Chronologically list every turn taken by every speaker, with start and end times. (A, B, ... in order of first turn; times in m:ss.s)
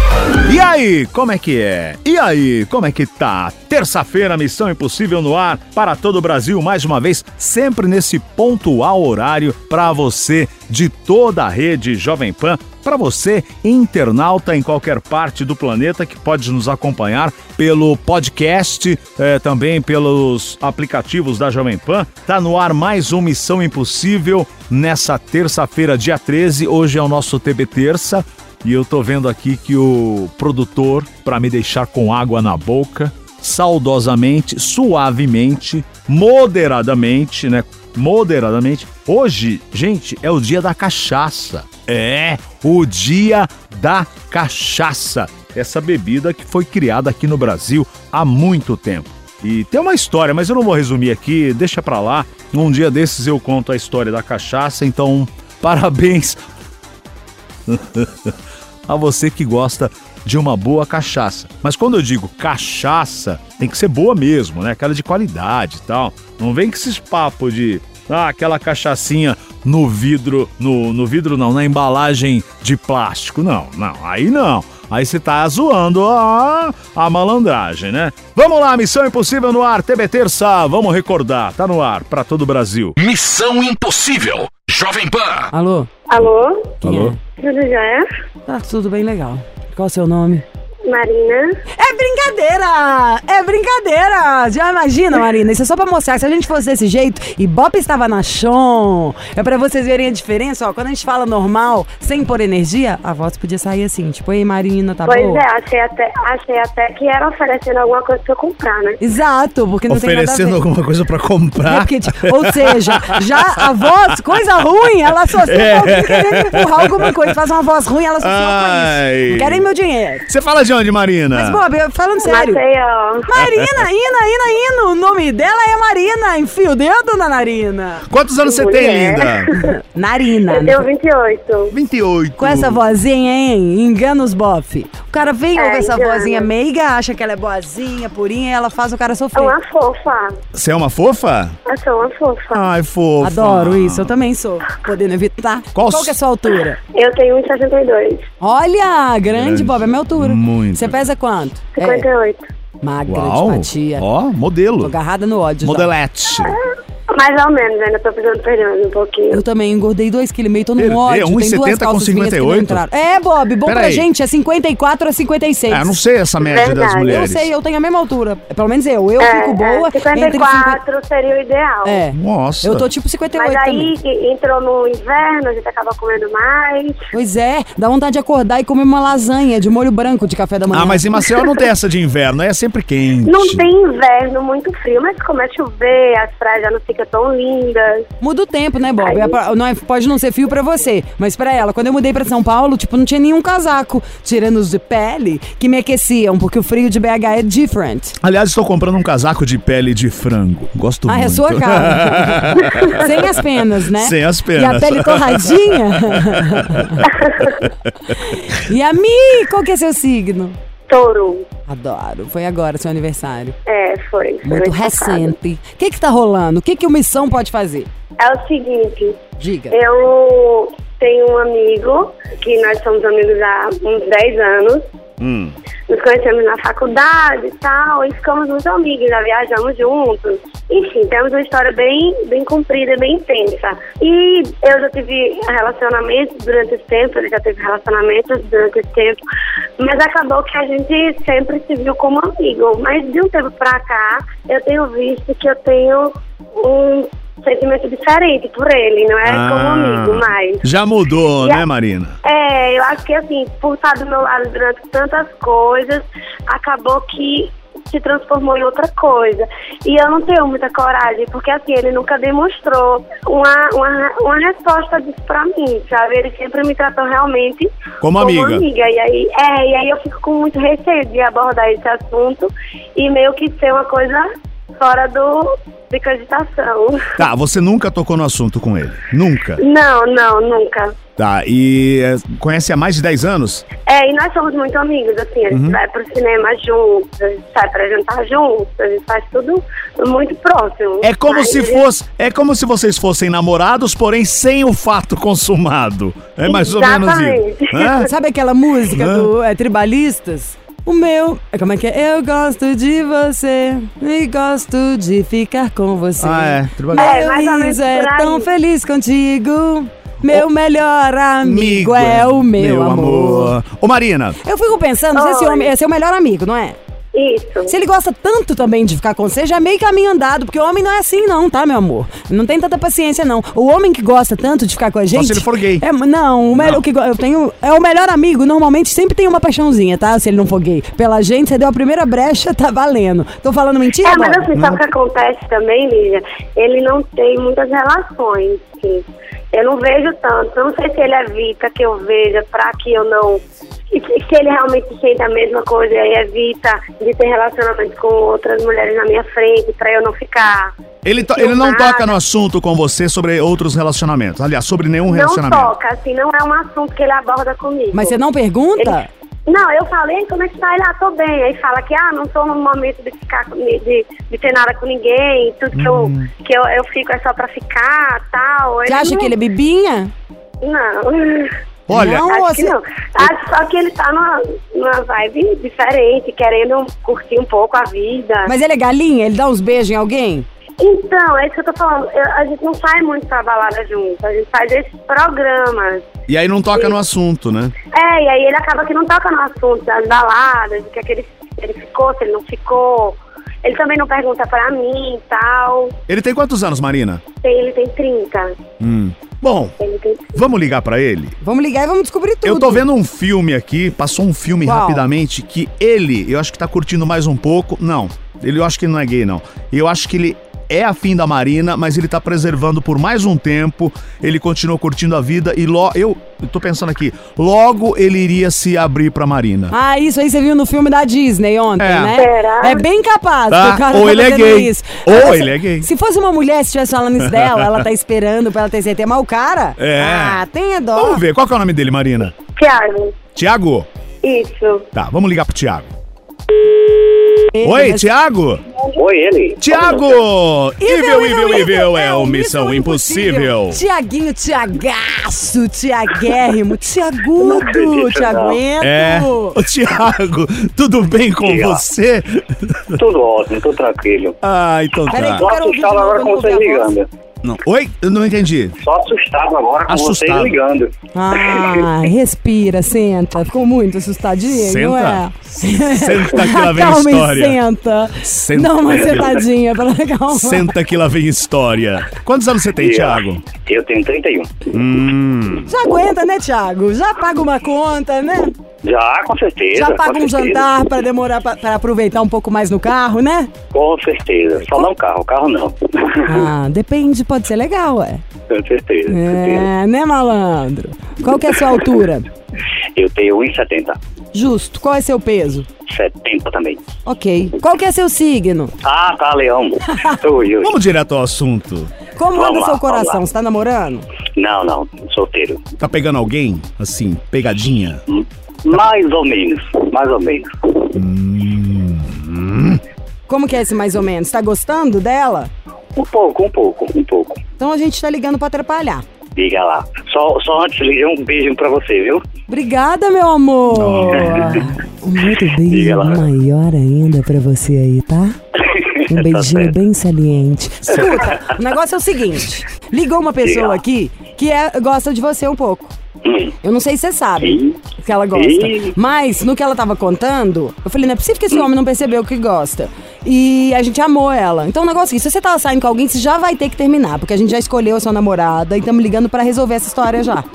0:00.4-0:56.4 A
0:57.7-0:58.3 A
0:58.9-1:22.9 A
1:23.0-1:25.5 B
1:25.5-1:25.9 C
1:26.1-1:28.1 D
1:26.8-1:27.2 C
1:26.8-1:27.1 A
1:28.5-1:30.4 C
1:30.8-1:31.6 D
1:31.8-1:45.4 C
1:45.0-1:49.0 D
1:49.0-1:50.6 C
1:49.9-1:53.6 A
1:51.6-2:00.3 C
1:55.3-1:57.3 A
1:58.2-1:59.6 A
2:00.3-2:01.6 A
2:01.3-2:02.6 C
2:02.2-2:03.3 D
2:03.2-2:08.0 C
2:03.4-2:03.7 A
2:08.1-2:09.5 A
2:08.4-2:09.6 D
2:09.6-2:10.8 C
2:10.5-2:11.7 D
2:11.7-2:12.8 A
2:12.4-2:19.6 C
2:15.5-2:16.5 D
2:19.4-2:20.4 D
2:20.5-2:21.6 A
2:21.6-2:22.7 D
2:22.5-2:24.1 A
2:23.2-2:26.8 C
2:25.7-2:26.2 A
2:26.9-2:28.2 D
2:28.4-2:32.1 C
2:29.3-2:31.0 A
2:31.8-2:32.5 D
2:32.8-2:34.0 C
2:33.1-2:34.9 A
2:34.8-2:35.9 C
2:35.6-2:36.6 A
2:36.4-2:39.4 D
2:39.3-2:45.9 C
2:40.8-2:42.8 A
2:43.6-2:44.1 A
2:45.7-2:47.5 A
2:46.4-2:47.1 D
2:47.0-2:50.8 C
2:49.2-2:52.0 D
2:51.8-2:53.9 C
2:52.1-2:52.8 A
2:53.3-2:57.0 D
2:57.1-3:01.0 C
3:00.7-3:03.7 A
3:03.2-3:08.0 D
3:08.2-3:18.2 C
3:09.0-3:09.4 D
3:18.2-3:23.2 A
3:21.1-3:27.1 C
3:23.9-3:27.7 A
3:27.1-3:27.5 D
3:28.2-3:30.6 C
3:30.9-3:31.4 D
3:31.7-3:33.5 C
3:33.6-3:35.3 D
3:34.4-3:37.9 C
3:38.2-3:39.2 D
3:39.4-3:39.8 C
3:39.7-3:44.8 D
3:45.2-3:45.5 A
3:45.9-3:59.2 D
3:59.8-4:10.6 D
4:09.2-4:12.2 A
4:12.2-4:37.2 D
4:28.0-4:28.6 A
4:37.2-4:39.6 A
4:39.6-4:40.9 D
4:41.2-4:43.6 A
4:43.8-4:51.8 D
4:45.5-4:45.8 A
4:51.0-4:58.1 A
4:56.4-4:58.1 D
4:58.1-5:13.5 C
4:58.9-4:59.3 A
5:06.2-5:07.1 A
5:06.9-5:08.5 D
5:11.4-5:14.4 A
5:14.4-5:16.8 C
5:15.1-5:15.7 D
5:17.1-5:17.7 D
5:17.7-5:34.5 C
5:25.1-5:25.8 A
5:26.5-5:26.8 A
5:34.0-5:50.7 D
5:34.5-5:34.8 A
5:51.0-5:55.7 A
5:51.3-5:52.1 D
5:55.1-5:58.2 D
5:57.9-5:59.1 C
5:58.8-6:09.3 D
6:05.7-6:06.3 A
6:08.8-6:10.1 C
6:10.6-6:11.5 D
6:11.9-6:12.2 A
6:11.9-6:12.8 C
6:12.2-6:18.5 D
6:18.4-6:20.4 C
6:20.8-6:26.1 D
6:26.3-6:27.7 A
6:27.9-6:36.0 D
6:36.1-6:37.2 A
6:37.4-6:38.5 D
6:38.8-6:39.7 A
6:39.8-6:40.4 D
6:40.3-6:41.3 A
6:41.4-6:42.8 C
6:42.4-6:59.7 A
6:44.6-6:45.0 C
6:59.7-7:11.2 C
7:01.8-7:02.1 A
7:02.1-7:02.8 D
7:03.5-7:05.9 A
7:07.2-7:07.8 A
7:09.8-7:10.4 A
7:11.0-7:12.3 A
7:12.5-7:13.2 D
7:13.3-7:13.9 A
7:14.2-7:14.8 D
7:14.9-7:15.9 A
7:17.5-7:18.1 C
7:17.6-7:18.6 A
7:18.9-7:20.2 E
7:19.6-7:23.8 A
7:20.8-7:29.6 C
7:27.4-7:28.6 E
7:28.8-7:33.0 A
7:31.4-7:31.8 E
7:32.9-7:34.4 E
7:34.4-7:35.4 A
7:35.1-7:36.9 C
7:35.2-7:37.1 E
7:37.4-7:38.8 A
7:38.8-7:41.8 E
7:39.9-7:40.6 A
7:41.1-7:50.7 C
7:44.5-7:47.6 A
7:48.2-7:49.4 A
7:50.3-7:53.4 A
7:52.8-7:54.7 E
7:54.7-7:55.7 A
7:55.7-7:58.5 C
7:58.8-8:00.6 E
7:59.7-8:03.5 C
8:03.7-8:06.5 E
8:06.2-8:08.2 C
8:08.5-8:09.7 E
8:09.1-8:12.2 C
8:13.0-8:14.0 E
8:14.3-8:15.7 C
8:15.9-8:16.8 E
8:17.0-8:18.7 C
8:18.8-8:20.7 E
8:20.6-8:21.9 A
8:22.2-8:24.0 C
8:22.3-8:23.2 E
8:24.4-8:25.6 E
8:25.8-8:28.0 A
8:28.1-8:30.9 E
8:30.9-8:32.8 A
8:33.3-8:35.5 C
8:35.9-8:37.4 E
8:37.6-8:39.0 C
8:39.4-8:42.2 E
8:42.5-8:48.4 C
8:43.7-8:44.7 A
8:45.7-8:46.2 E
8:48.6-8:49.7 E
8:49.1-8:55.9 C
8:50.9-8:51.6 E
8:53.4-8:53.8 E
8:56.2-8:56.5 E
8:56.6-9:10.4 C
8:57.4-8:57.8 E
8:58.3-8:58.9 E